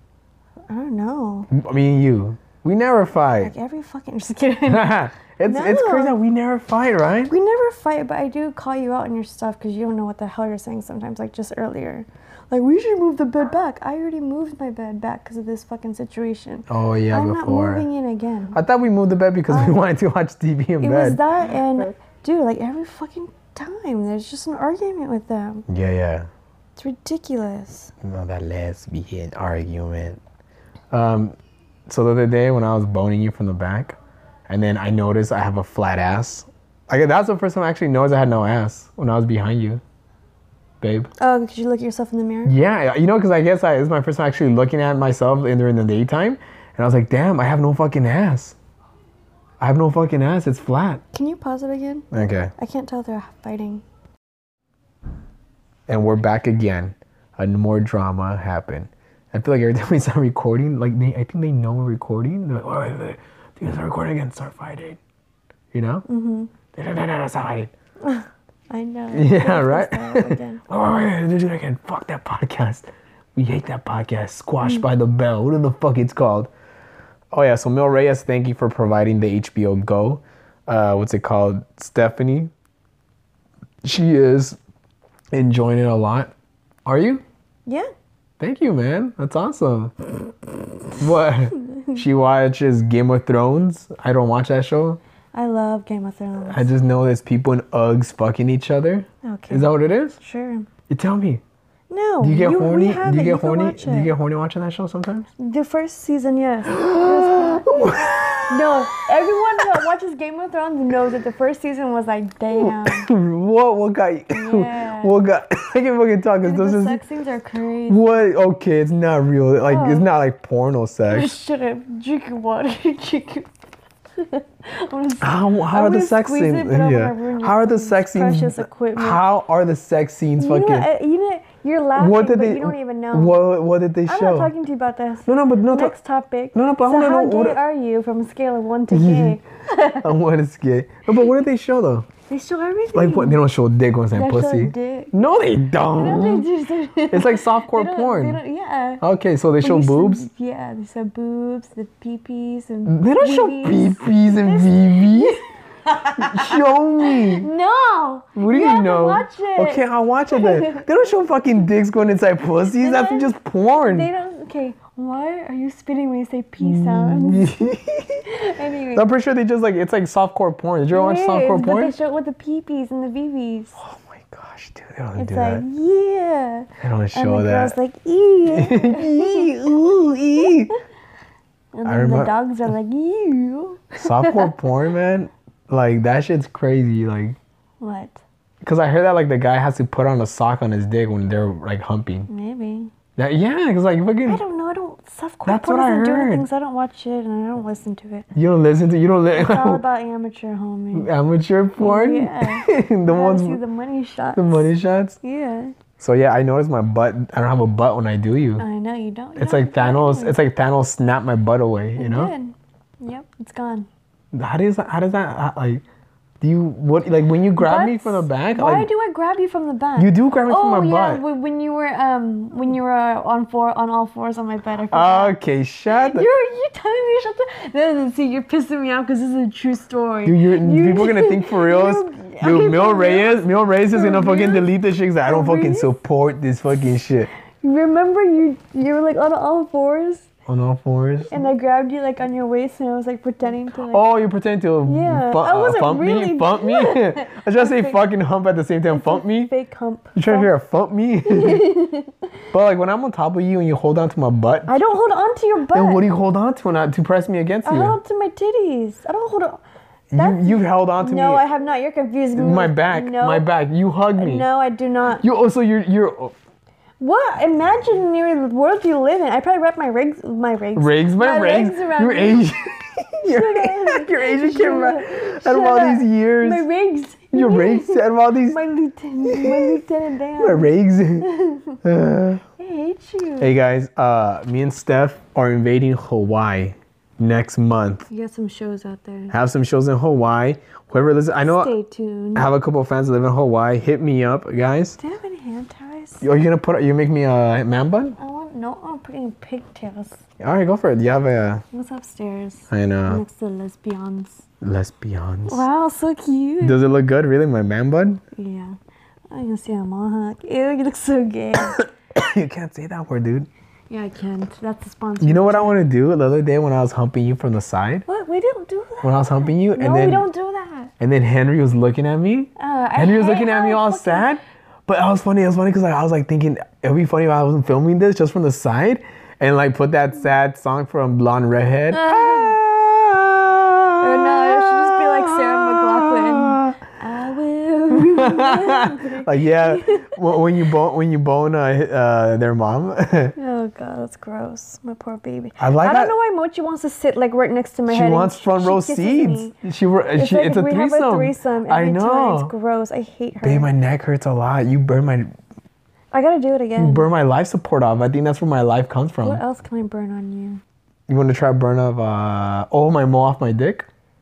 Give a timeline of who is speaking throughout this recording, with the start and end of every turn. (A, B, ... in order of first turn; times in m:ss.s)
0:00.7-0:01.5 A
0:01.5-0:03.5 B
0:03.4-0:06.2 A
0:04.7-0:07.3 B
0:07.3-0:18.6 A
0:16.7-0:17.9 B
0:18.5-0:21.2 B
0:19.5-0:19.8 A
0:20.8-0:25.6 A
0:25.7-0:26.3 B
0:26.8-0:27.9 A
0:28.0-0:30.2 B
0:30.9-0:31.3 B
0:31.9-0:34.0 B
0:34.5-0:39.8 B
0:40.8-0:41.1 B
0:41.2-0:42.5 A
0:42.4-0:48.6 B
0:49.6-0:51.0 B
0:51.1-0:52.0 A
0:52.1-0:52.5 B
0:52.6-0:53.8 A
0:55.9-1:05.0 B
1:05.7-1:06.0 B
1:06.1-1:06.5 A
1:06.7-1:07.7 B
1:08.0-1:10.6 A
1:09.1-1:16.5 B
1:17.3-1:22.5 B
1:23.8-1:24.6 B
1:25.3-1:26.3 B
1:26.8-1:27.2 B
1:28.4-1:29.9 B
1:31.0-1:35.0 B
1:35.3-1:36.7 A
1:36.5-1:40.2 B
1:39.2-1:40.7 A
1:40.9-1:41.4 B
1:41.9-1:44.1 A
1:42.2-1:45.3 B
1:45.4-1:53.1 A
1:46.7-1:48.8 B
1:49.6-1:49.8 B
1:52.5-1:57.0 B
1:54.3-1:55.1 A
1:56.4-1:58.2 A
1:57.9-2:01.3 B
1:59.6-2:00.0 A
2:01.1-2:03.5 A
2:04.2-2:09.2 A
2:05.2-2:10.9 B
2:10.4-2:13.4 A
2:12.0-2:14.5 B
2:14.0-2:20.0 A
2:15.2-2:15.9 B
2:16.5-2:17.6 B
2:18.9-2:22.1 B
2:22.3-2:23.4 A
2:22.9-2:26.5 B
2:24.1-2:25.1 A
2:25.9-2:29.0 A
2:27.1-2:28.4 B
2:29.0-2:30.2 B
2:29.6-2:40.8 A
2:32.8-2:35.4 B
2:36.2-2:37.5 B
2:38.3-2:44.1 B
2:42.7-2:43.3 A
2:43.8-2:47.5 A
2:46.6-2:48.2 B
2:48.3-2:49.0 A
2:48.9-2:51.9 B
2:50.9-2:53.8 A
2:53.8-2:55.6 B
2:55.2-2:59.5 A
2:56.8-2:57.8 B
2:58.4-3:00.7 B
3:00.4-3:00.7 A
3:01.7-3:04.5 A
3:01.8-3:02.3 B
3:04.0-3:07.4 B
3:07.8-3:08.2 A
3:08.6-3:12.3 B
3:12.3-3:12.9 A
3:13.2-3:14.4 B
3:14.2-3:18.3 A
3:15.4-3:16.4 B
3:18.3-3:19.8 B
3:19.3-3:21.1 A
3:20.9-3:23.6 B
3:21.8-3:24.7 A
3:24.3-3:25.2 B
3:25.2-3:25.7 A
3:26.0-3:28.6 B
3:28.6-3:30.4 A
3:29.4-3:32.3 B
3:32.0-3:33.9 A
3:34.3-3:35.8 B
3:36.4-3:38.9 B
3:37.6-3:45.4 A
3:40.0-3:41.2 B
3:44.9-3:46.3 B
3:45.9-3:54.7 A
3:50.2-3:57.3 B
3:55.2-3:55.9 A
3:57.6-4:00.3 A
4:00.4-4:01.5 B
4:01.3-4:04.0 A
4:03.7-4:09.5 B
4:04.8-4:08.0 A
4:08.9-4:10.5 A
4:10.1-4:11.8 B
4:11.2-4:12.2 A
4:12.5-4:14.9 B
4:14.7-4:16.0 A
4:15.7-4:18.0 B
4:17.6-4:19.6 A
4:20.1-4:21.4 B
4:20.1-4:23.5 A
4:22.3-4:24.5 B
4:24.1-4:25.2 A
4:25.2-4:26.3 B
4:27.0-4:32.5 A
4:30.7-4:36.6 B
4:33.2-4:41.8 A
4:37.3-4:38.6 B
4:39.2-4:39.8 B
4:40.4-4:41.3 B
4:41.8-4:42.4 B
4:42.6-4:43.5 A
4:43.4-4:48.0 B
4:48.1-4:49.3 A
4:49.3-4:51.7 B
4:51.4-4:52.5 A
4:52.3-4:55.0 B
4:55.0-4:56.2 A
4:56.2-4:58.2 B
4:58.2-5:00.2 A
5:00.4-5:01.6 B
5:01.7-5:04.4 A
5:02.7-5:03.2 B
5:04.6-5:05.6 B
5:05.4-5:06.8 A
5:06.6-5:08.2 B
5:08.3-5:08.8 A
5:09.3-5:11.8 A
5:11.8-5:13.5 B
5:13.9-5:15.9 A
5:15.2-5:18.0 B
5:18.0-5:20.9 A
5:19.0-5:20.3 B
5:21.0-5:36.8 B
5:22.6-5:24.3 A
5:31.9-5:32.6 A
5:34.0-5:40.2 A
5:37.9-5:43.3 B
5:43.4-5:49.5 A
5:45.6-5:46.1 B
5:47.9-5:52.5 B
5:50.2-5:53.7 A
5:53.4-5:55.3 B
5:56.1-5:57.1 A
5:56.8-5:59.4 B
5:59.2-6:00.6 A
6:01.1-6:03.9 B